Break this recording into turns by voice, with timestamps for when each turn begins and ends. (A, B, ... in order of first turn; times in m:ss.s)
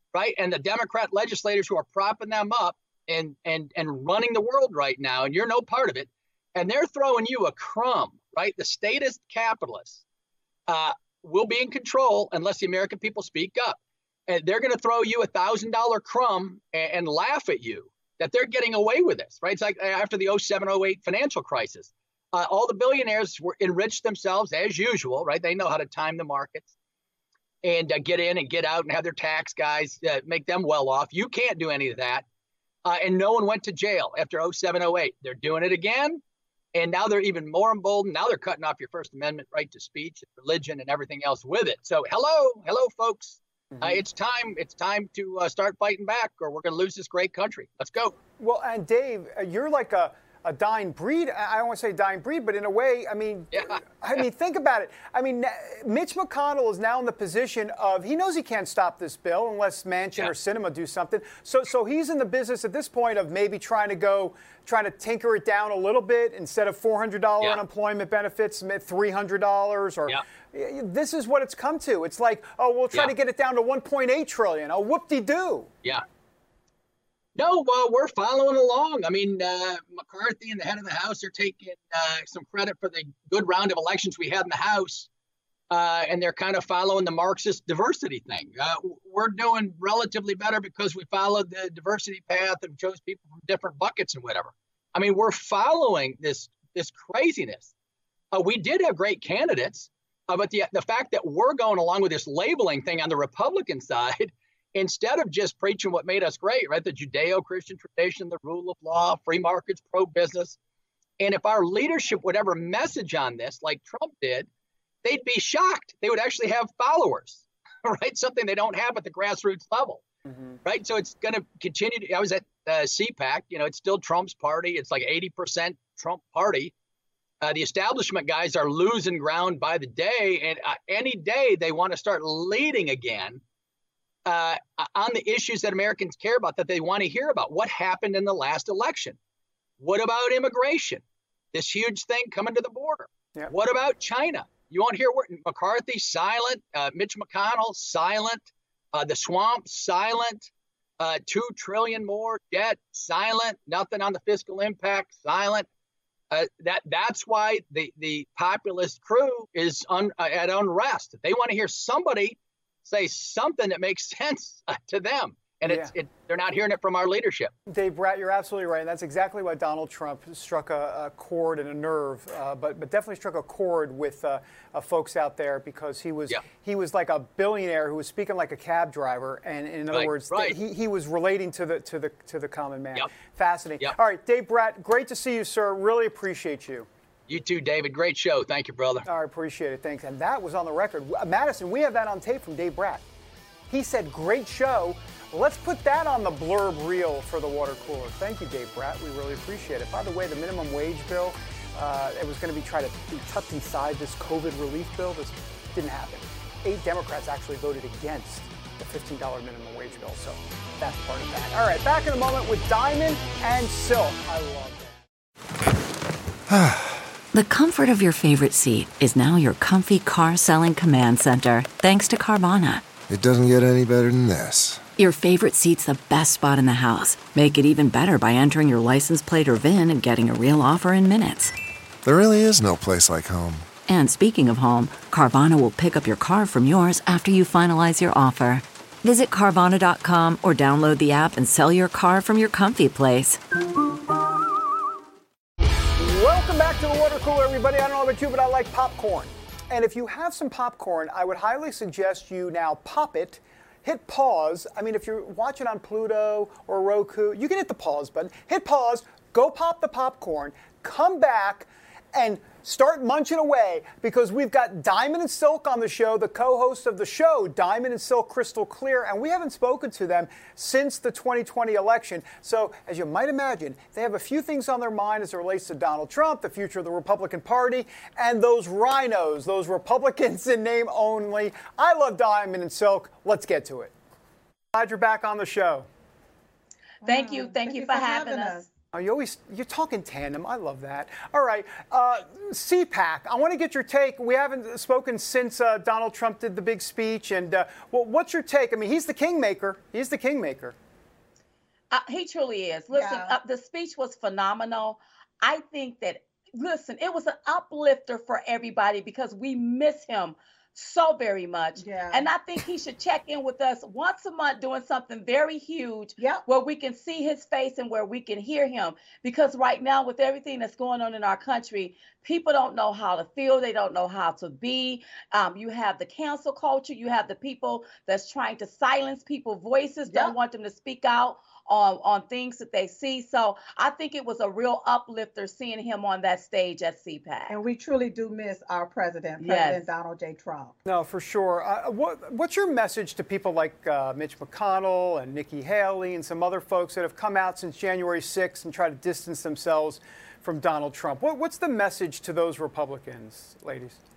0:00.1-0:10.0 A
0:10.7-0:26.7 A
0:27.6-0:32.2 A
0:32.8-0:36.2 A
0:36.7-0:48.2 A
0:48.4-1:15.7 B
0:53.5-0:53.8 A
1:17.4-1:25.1 A
1:25.7-1:37.7 A
1:38.3-1:50.6 A
1:51.2-1:54.5 A
1:55.0-2:00.0 A
2:00.3-2:00.6 B
2:00.6-2:06.7 A
2:07.4-2:13.4 A
2:14.3-2:19.2 A
2:19.8-2:21.0 A
2:21.5-2:35.7 A
2:36.3-2:47.5 A
2:45.6-2:45.9 B
2:47.7-3:06.9 B
2:59.9-3:00.6 A
3:07.3-3:09.1 A
3:09.0-3:13.0 B
3:13.7-3:35.0 B
3:36.5-3:36.9 C
3:37.3-3:42.9 D
3:43.1-3:44.8 C
3:45.0-3:51.5 D
3:52.0-3:53.7 C
3:53.9-4:03.4 D
4:06.0-4:43.9 B
4:44.7-4:45.9 B
4:47.0-4:48.6 E
4:47.0-4:48.6 F
4:48.9-5:00.8 B
5:01.9-5:37.6 F
5:02.9-5:03.4 E
5:11.8-5:12.3 E
5:30.1-5:30.4 E
5:37.5-5:40.8 E
5:39.4-5:39.9 F
5:40.8-5:54.0 B